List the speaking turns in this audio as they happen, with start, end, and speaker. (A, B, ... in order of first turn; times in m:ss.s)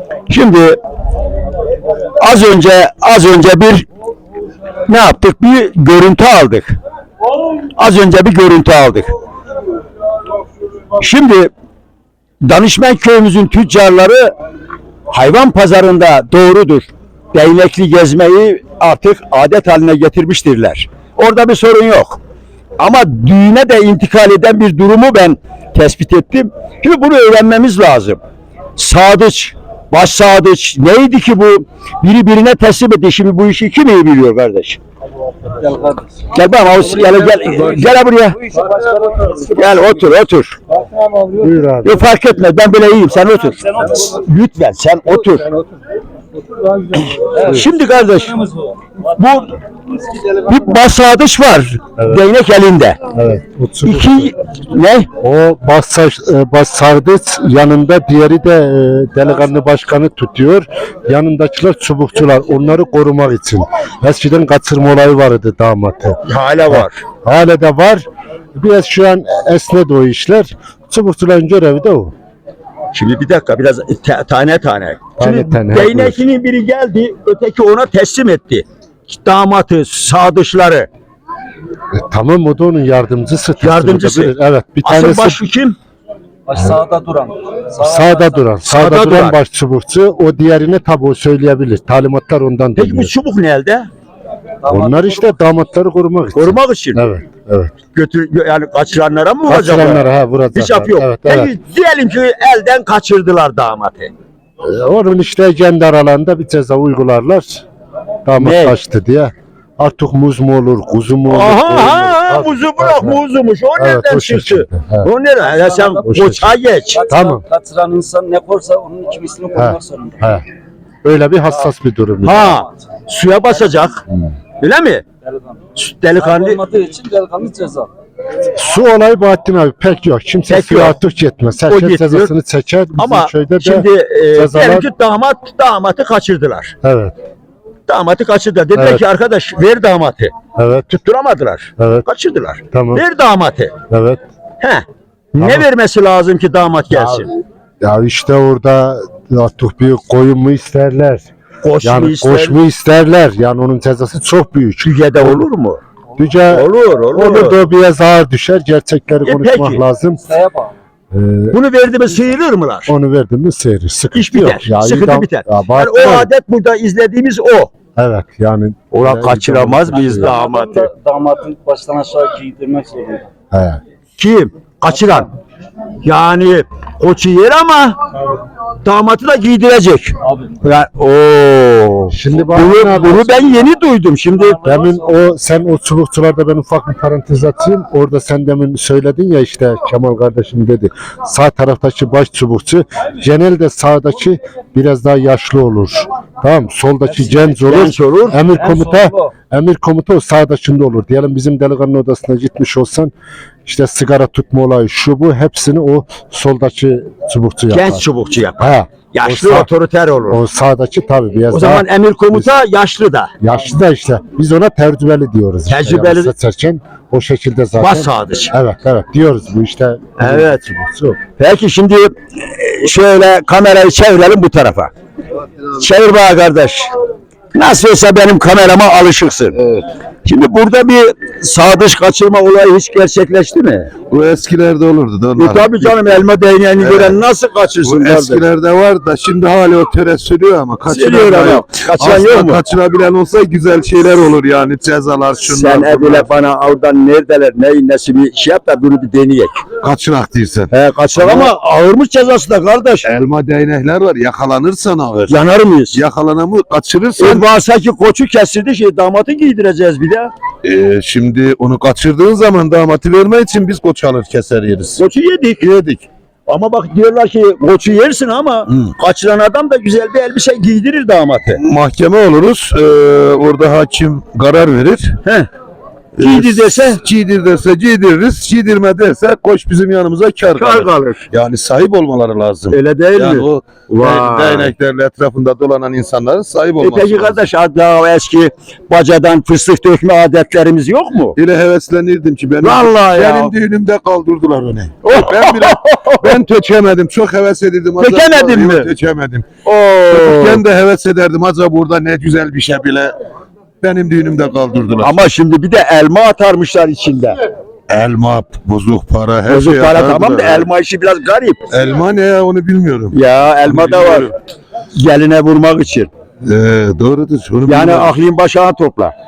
0:00.3-0:00.8 A
0:02.2-0:03.8 A
0:04.9-0:06.8 A
0:07.8-0:09.1 A
0:11.0-0:11.5 A
0:12.4-0:14.3 A
0:15.1-0:22.2 A
0:22.8-0:28.2 A
0:28.8-0:34.8 A
0:35.6-0:36.0 B
0:36.3-0:38.4 A
0:38.7-0:39.4 B
0:39.5-0:40.6 A
0:41.3-0:42.0 C
0:41.8-0:45.5 A
0:47.3-0:48.4 A
0:49.1-0:49.6 A
0:50.3-0:53.0 A
0:53.1-0:54.3 C
0:53.8-0:55.1 A
0:55.2-1:12.1 C
1:06.2-1:07.0 A
1:12.9-1:20.9 A
1:15.2-1:16.2 C
1:21.9-1:25.4 C
1:23.6-1:25.8 A
1:26.5-1:28.4 B
1:27.8-1:33.1 C
1:28.7-1:29.4 A
1:32.8-1:33.9 A
1:34.6-1:35.2 B
1:34.6-1:37.7 C
1:36.3-1:37.0 A
1:37.9-1:44.1 A
1:39.5-1:41.5 C
1:44.6-1:47.6 C
1:48.2-1:53.2 C
1:48.4-1:48.8 A
1:51.3-1:57.0 A
1:53.8-1:55.1 C
1:55.5-1:56.2 B
1:56.1-1:56.5 C
1:56.8-2:00.4 B
1:57.1-1:57.4 C
1:59.5-2:00.4 C
2:01.0-2:02.6 C
2:02.2-2:04.0 A
2:04.6-2:05.0 A
2:05.8-2:06.6 A
2:06.2-2:07.9 B
2:08.5-2:14.9 C
2:10.5-2:11.0 A
2:11.7-2:12.3 A
2:13.0-2:16.7 A
2:16.8-2:17.1 C
2:17.9-2:20.3 A
2:18.7-2:19.0 C
2:20.6-2:21.0 C
2:21.0-2:23.7 A
2:21.8-2:22.0 C
2:22.7-2:23.0 C
2:23.9-2:24.2 C
2:24.6-2:27.3 A
2:25.4-2:25.6 C
2:26.9-2:27.2 C
2:27.8-2:31.3 C
2:31.6-2:32.6 A
2:31.8-2:35.5 C
2:34.8-2:35.8 A
2:36.2-2:40.2 C
2:36.5-2:37.6 A
2:39.2-2:39.8 A
2:40.2-2:40.7 B
2:41.1-2:41.6 C
2:41.5-2:42.9 A
2:42.9-2:46.3 C
2:44.1-2:47.7 A
2:48.0-2:50.4 C
2:48.9-2:50.9 A
2:49.9-2:53.2 B
2:53.5-2:53.8 C
2:54.2-2:55.3 A
2:56.0-2:58.0 A
2:58.8-3:04.6 A
3:00.2-3:00.5 B
3:02.1-3:03.6 C
3:04.3-3:05.2 B
3:04.6-3:23.1 C
3:17.6-3:18.4 A
3:18.4-3:19.3 B
3:23.6-3:28.0 C
3:27.7-3:30.4 A
3:28.6-3:29.7 C
3:30.3-3:32.5 C
3:31.5-3:33.3 A
3:33.4-3:41.2 C
3:35.7-3:36.3 A
3:37.8-3:38.5 A
3:40.2-3:40.6 A
3:41.4-3:44.9 A
3:45.8-3:46.9 A
3:47.5-3:49.6 A
3:50.2-3:53.9 A
3:54.1-3:56.0 D
3:55.4-3:58.4 A
3:56.8-3:57.2 D
3:57.8-4:06.3 D
4:00.8-4:02.6 A
4:05.5-4:09.6 A
4:09.8-4:11.5 D
4:10.7-4:13.1 A
4:13.0-4:15.4 D
4:15.3-4:16.0 A
4:15.9-4:17.5 D
4:17.2-4:20.3 A
4:20.6-4:25.0 D
4:25.0-4:31.6 A
4:31.6-4:35.2 D
4:35.2-4:35.5 A
4:36.2-4:47.4 D
4:36.2-4:37.0 A
4:40.5-4:41.2 A
4:42.7-4:44.7 A
4:46.8-4:51.4 A
4:51.4-4:59.4 D
4:52.6-4:53.5 A
4:55.0-4:56.4 A
4:58.0-4:58.9 A
4:59.6-5:00.6 A
5:00.1-5:03.1 D
5:03.8-5:05.3 D
5:05.0-5:07.4 A
5:07.9-5:10.7 D
5:09.5-5:11.6 A
5:11.7-5:14.3 D
5:13.1-5:14.3 A
5:14.9-5:16.1 A
5:16.4-5:18.2 D
5:17.6-5:19.1 A